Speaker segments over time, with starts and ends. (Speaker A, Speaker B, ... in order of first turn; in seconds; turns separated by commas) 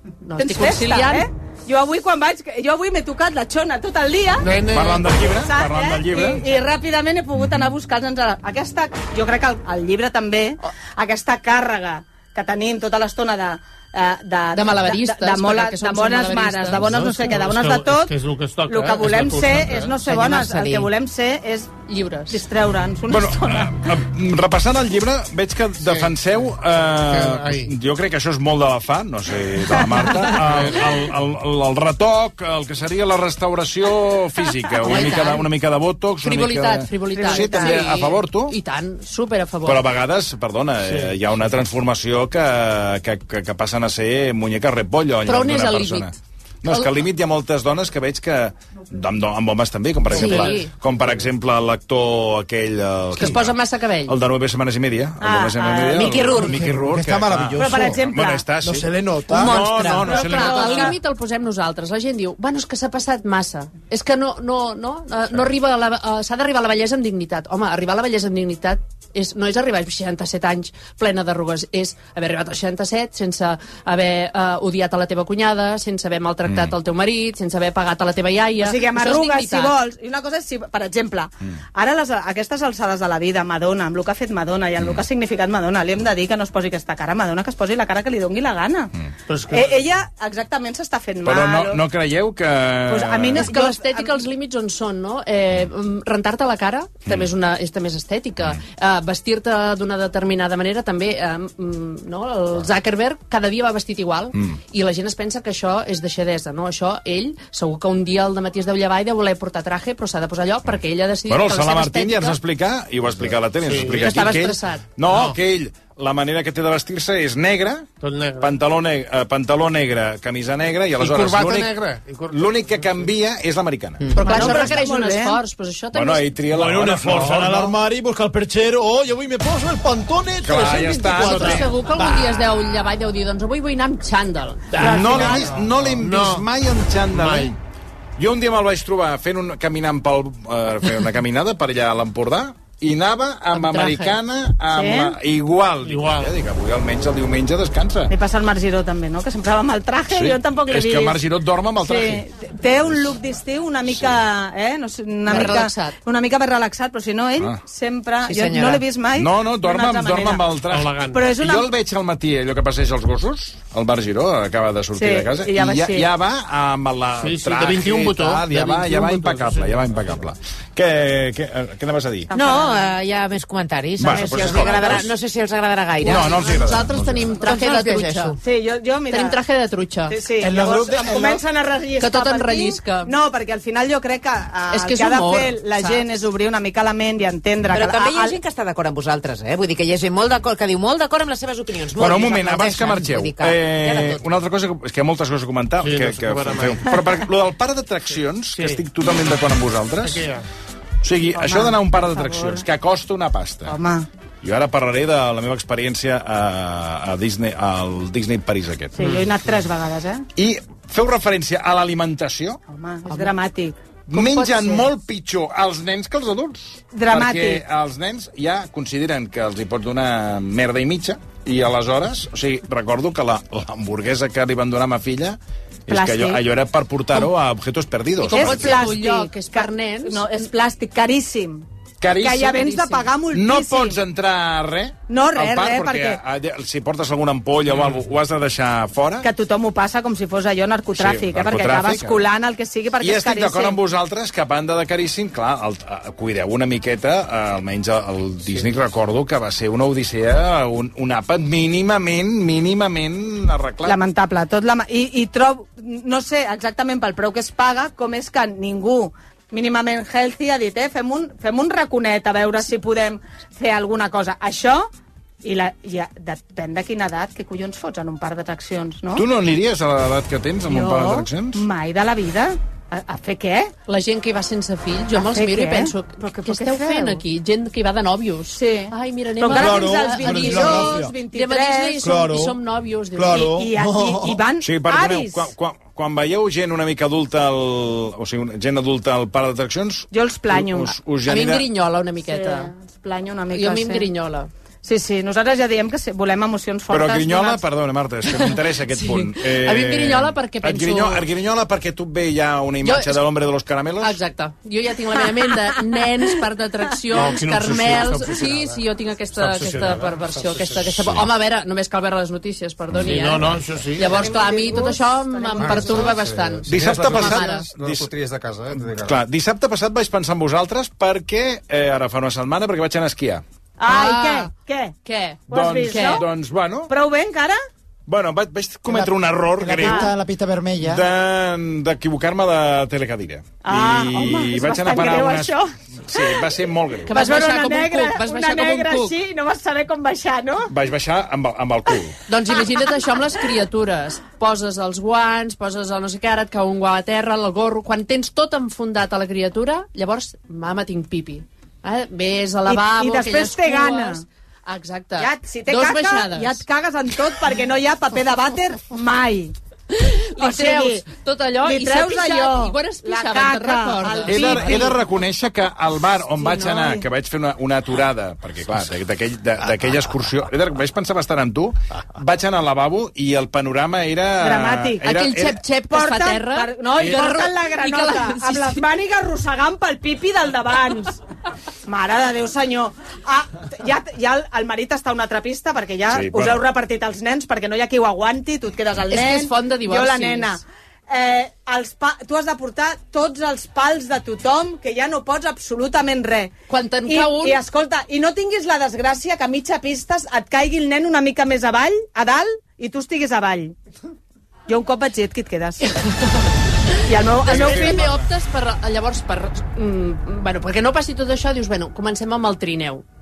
Speaker A: 0.2-1.3, Speaker B: 0.4-4.5, Speaker C: 4.4-5.3, Speaker D: 4.7-6.4, Speaker B: 5.3-18.1, Speaker D: 7.4-7.7, Speaker A: 14.5-17.3, Speaker C: 16.8-20.0, Speaker B: 18.7-21.8, Speaker E: 20.0-20.9, Speaker A: 21.9-22.4, Speaker B: 22.3-23.9, Speaker D: 23.1-38.5, Speaker C: 25.8-26.1, Speaker C: 27.0-27.7, Speaker B: 29.7-30.3, Speaker A: 34.9-35.5, Speaker A: 36.2-39.8, Speaker B: 37.1-38.0, Speaker D: 39.6-53.5, Speaker C: 40.8-41.3, Speaker A: 45.2-46.1, Speaker A: 50.1-50.7, Speaker A: 53.1-54.1, Speaker D: 54.1-60.9, Speaker B: 55.2-56.4, Speaker E: 55.9-56.6, Speaker F: 57.1-57.9, Speaker B: 57.5-58.4, Speaker F: 58.7-59.5, Speaker E: 59.3-60.1, Speaker B: 60.0-61.0, Speaker A: 60.1-79.8, Speaker D: 76.5-76.7, Speaker B: 78.6-88.9, Speaker D: 84.8-85.0, Speaker C: 89.3-89.7, Speaker B: 89.5-91.8, Speaker D: 91.2-93.5, Speaker B: 92.9-94.2, Speaker A: 93.3-112.4, Speaker D: 111.3-121.8, Speaker C: 113.6-114.2, Speaker A: 114.0-114.8, Speaker B: 114.0-114.4, Speaker C: 115.0-115.4, Speaker C: 118.0-118.6, Speaker C: 121.0-123.1, Speaker D: 122.3-124.6, Speaker B: 124.2-125.4, Speaker A: 124.2-126.3, Speaker D: 125.9-127.7, Speaker F: 126.5-131.5, Speaker D: 130.4-131.7, Speaker C: 130.5-132.4, Speaker A: 131.2-135.3, Speaker C: 134.7-136.5, Speaker B: 134.8-135.6, Speaker D: 134.8-137.6, Speaker C: 137.1-137.5, Speaker D: 138.2-148.1, Speaker A: 143.5-144.1, Speaker B: 144.7-145.2, Speaker C: 145.8-146.3, Speaker B: 148.1-151.2, Speaker D: 150.1-152.2, Speaker B: 151.8-160.4, Speaker D: 153.9-154.2, Speaker A: 155.2-156.0, Speaker E: 158.3-158.8, Speaker D: 159.2-172.3, Speaker C: 160.7-161.3, Speaker B: 161.1-161.7, Speaker B: 164.9-166.1, Speaker C: 167.2-170.2, Speaker B: 172.3-172.9, Speaker E: 172.3-176.5, Speaker D: 174.0-175.1, Speaker B: 174.1-175.0, Speaker A: 176.0-178.4, Speaker D: 176.1-177.3, Speaker E: 177.4-178.3, Speaker B: 178.4-179.4, Speaker A: 179.1-180.2, Speaker B: 180.1-188.4, Speaker G: 180.4-181.4, Speaker A: 182.0-183.1, Speaker A: 184.7-186.0, Speaker E: 187.7-194.2, Speaker D: 191.9-200.2, Speaker C: 195.8-196.9, Speaker C: 198.5-198.8, Speaker C: 200.0-200.4, Speaker D: 201.0-203.7, Speaker B: 201.3-202.6, Speaker B: 203.6-204.1, Speaker D: 204.4-208.9, Speaker B: 208.9-210.2, Speaker D: 210.3-212.6, Speaker B: 212.7-213.8, Speaker A: 213.1-213.3, Speaker D: 214.1-228.8, Speaker A: 214.1-214.8, Speaker B: 216.9-217.6, Speaker B: 225.9-226.4, Speaker B: 228.2-234.0, Speaker A: 228.3-230.4, Speaker D: 232.0-232.6, Speaker A: 232.7-233.0, Speaker D: 233.3-239.3, Speaker B: 235.1-236.2, Speaker B: 239.2-243.8, Speaker D: 240.9-242.2, Speaker D: 243.0-253.9, Speaker B: 253.8-264.9, Speaker B: 265.4-269.2, Speaker D: 269.1-271.6, Speaker B: 270.7-273.7, Speaker A: 273.9-283.5, Speaker B: 275.1-277.2, Speaker B: 278.5-282.2, Speaker F: 279.5-281.1, Speaker F: 282.0-282.6, Speaker F: 283.1-283.7, Speaker B: 283.4-285.5, Speaker G: 283.8-284.3, Speaker D: 284.6-291.6, Speaker B: 290.1-290.9, Speaker A: 291.2-292.7, Speaker B: 292.2-294.1, Speaker A: 293.5-294.5, Speaker B: 294.8-297.6, Speaker D: 296.9-304.2, Speaker A: 298.4-301.2, Speaker A: 302.8-303.2, Speaker A: 304.0-317.7, Speaker C: 307.1-308.8, Speaker C: 309.3-310.9, Speaker D: 310.9-311.2, Speaker C: 313.0-314.2, Speaker B: 314.0-316.2, Speaker H: 316.1-319.1, Speaker D: 316.6-318.1, Speaker G: 316.9-317.1, Speaker D: 318.7-323.4, Speaker G: 318.7-319.1, Speaker B: 323.8-324.9, Speaker A: 323.9-324.5, Speaker A: 325.0-326.2, Speaker B: 325.5-326.3, Speaker D: 325.5-326.9, Speaker B: 326.9-327.6, Speaker D: 328.1-330.1, Speaker G: 328.9-331.0, Speaker B: 329.8-330.1, Speaker D: 330.8-335.6, Speaker B: 333.6-336.4, Speaker D: 336.1-337.1, Speaker A: 337.1-339.1, Speaker B: 337.1-340.7, Speaker D: 340.7-342.1, Speaker A: 342.3-356.6, Speaker B: 352.6-354.2, Speaker B: 355.2-359.5, Speaker A: 359.9-365.0, Speaker B: 360.4-361.1, Speaker B: 361.6-365.0, Speaker D: 364.3-375.6, Speaker B: 366.4-367.0, Speaker B: 374.4-375.1, Speaker A: 375.1-378.8, Speaker B: 375.9-381.2, Speaker B: 381.9-396.5, Speaker D: 386.1-386.6, Speaker A: 389.1-390.6, Speaker A: 396.7-397.6, Speaker B: 397.1-403.7, Speaker B: 404.7-405.8, Speaker A: 405.8-406.5, Speaker B: 407.1-408.1, Speaker A: 407.2-413.0, Speaker D: 407.4-408.2